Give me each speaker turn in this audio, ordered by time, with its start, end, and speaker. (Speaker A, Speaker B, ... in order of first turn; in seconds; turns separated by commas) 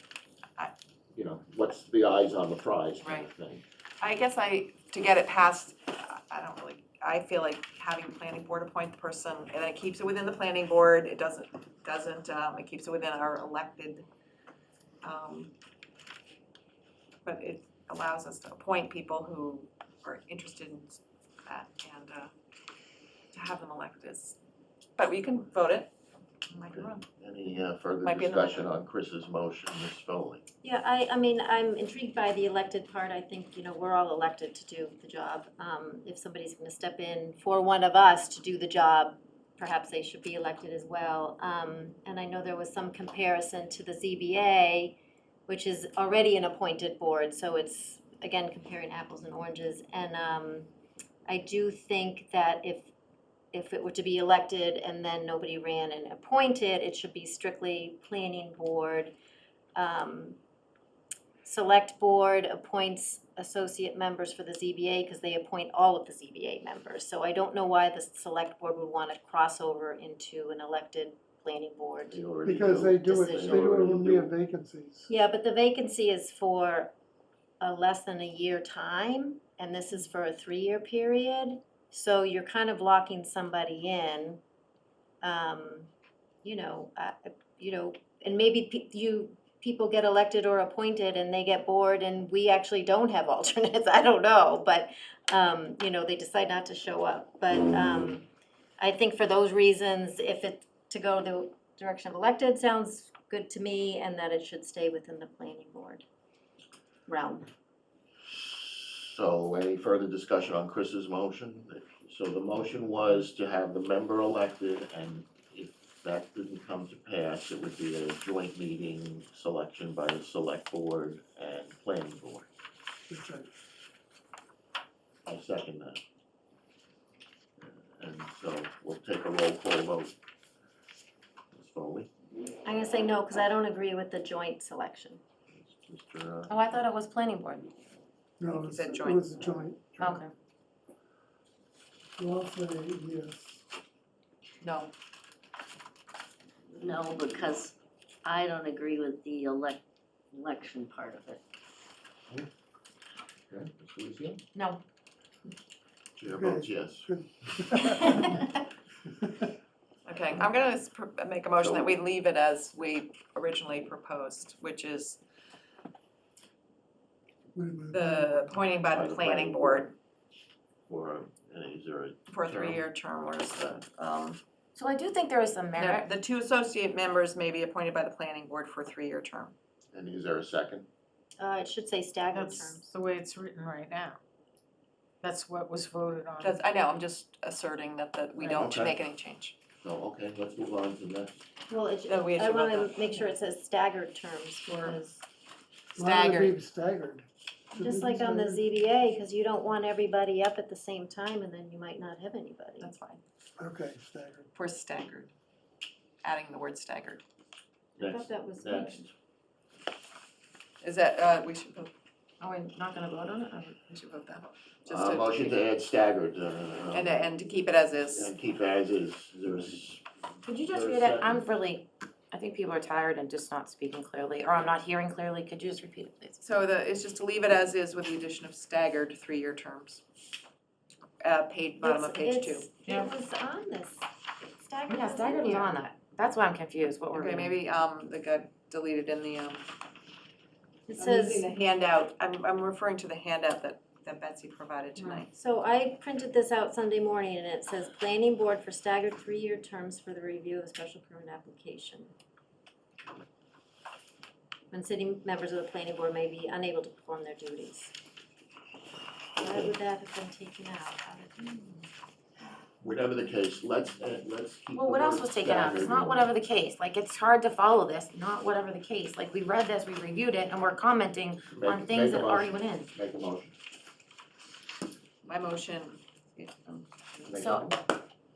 Speaker A: 1.1-3.6, Speaker B: 3.0-3.3, Speaker B: 4.0-14.0, Speaker B: 15.0-15.5, Speaker B: 17.2-22.3, Speaker B: 23.3-24.4, Speaker B: 25.0-25.9, Speaker B: 26.5-27.0, Speaker A: 26.7-30.4, Speaker B: 28.0-28.7, Speaker C: 30.6-45.0, Speaker C: 45.5-50.7, Speaker C: 51.3-52.9, Speaker C: 53.5-59.1, Speaker C: 59.7-60.4, Speaker C: 61.4-72.2, Speaker A: 72.1-74.3, Speaker D: 72.4-75.1, Speaker C: 73.0-73.9, Speaker C: 75.1-76.9, Speaker C: 77.6-84.4, Speaker C: 85.2-85.9, Speaker C: 86.4-98.2, Speaker C: 98.8-106.0, Speaker C: 107.1-107.5, Speaker A: 108.3-122.5, Speaker D: 123.1-123.5, Speaker A: 125.2-126.0, Speaker A: 127.6-130.1, Speaker A: 131.5-132.1, Speaker C: 132.6-135.2, Speaker A: 135.5-136.7, Speaker E: 136.5-137.7, Speaker D: 138.4-139.9, Speaker B: 138.6-139.4, Speaker A: 139.9-140.2, Speaker E: 140.0-140.3, Speaker D: 142.2-143.6, Speaker B: 144.6-144.9, Speaker F: 146.8-149.8, Speaker F: 150.3-151.4, Speaker A: 153.5-154.4, Speaker E: 154.5-154.8, Speaker A: 156.2-157.1, Speaker D: 156.3-158.4, Speaker D: 159.2-159.5, Speaker B: 160.0-165.2, Speaker A: 161.6-161.9, Speaker D: 167.5-168.4, Speaker B: 167.9-169.9, Speaker A: 168.8-169.9, Speaker A: 170.9-172.8, Speaker B: 172.3-174.4, Speaker E: 174.8-176.1, Speaker B: 175.8-179.5, Speaker A: 179.9-180.9, Speaker C: 181.4-182.9, Speaker G: 182.3-184.2, Speaker G: 185.2-186.6, Speaker B: 186.4-189.6, Speaker G: 188.4-188.8, Speaker A: 188.5-189.0, Speaker A: 189.8-191.4, Speaker C: 191.7-195.2, Speaker B: 192.1-193.3, Speaker B: 195.9-196.6, Speaker D: 195.9-198.6, Speaker C: 197.8-202.9, Speaker B: 202.8-203.2, Speaker D: 203.6-204.5, Speaker B: 204.5-205.3, Speaker B: 206.2-207.2, Speaker A: 207.9-209.1, Speaker C: 208.0-209.0, Speaker B: 210.8-211.9, Speaker E: 212.4-213.8, Speaker B: 213.9-215.6, Speaker A: 214.9-217.2, Speaker B: 216.9-218.3, Speaker A: 218.1-220.0, Speaker E: 220.4-226.4, Speaker A: 220.7-221.4, Speaker B: 226.4-230.0, Speaker B: 231.2-232.7, Speaker C: 231.8-235.7, Speaker E: 234.9-237.6, Speaker B: 237.1-239.7, Speaker C: 240.9-241.5, Speaker B: 240.9-245.3, Speaker E: 245.0-245.2, Speaker C: 245.3-252.1, Speaker C: 254.7-257.9, Speaker A: 259.4-259.7, Speaker C: 259.4-261.8, Speaker A: 262.8-266.3, Speaker E: 264.7-272.9, Speaker A: 271.5-273.6, Speaker B: 275.2-276.9, Speaker A: 277.3-277.7, Speaker E: 277.3-277.8